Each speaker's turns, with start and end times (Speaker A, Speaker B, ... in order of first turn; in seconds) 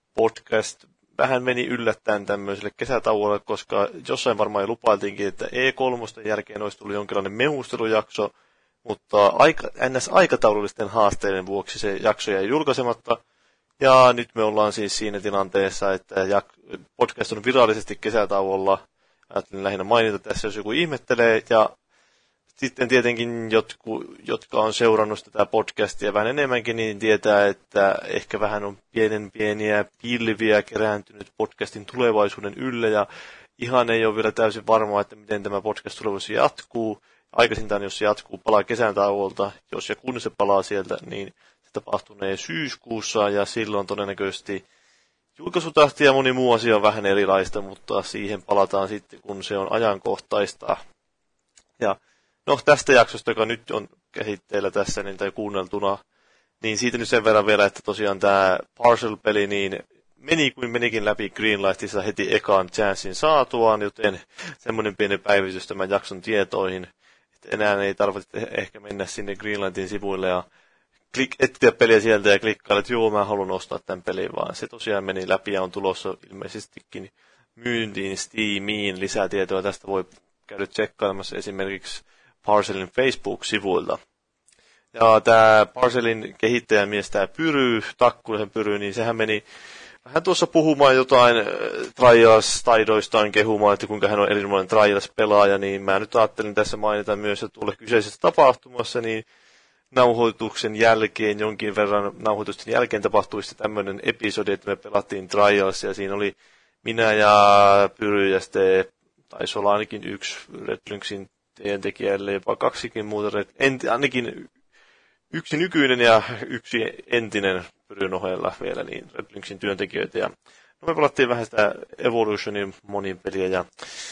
Speaker A: 0.1-8.3, 8.8-13.2, 13.8-21.7, 22.6-44.6, 45.4-50.8, 51.8-56.0, 56.6-70.5, 71.1-84.0, 84.9-89.4, 90.0-99.2, 99.9-114.5, 115.3-123.7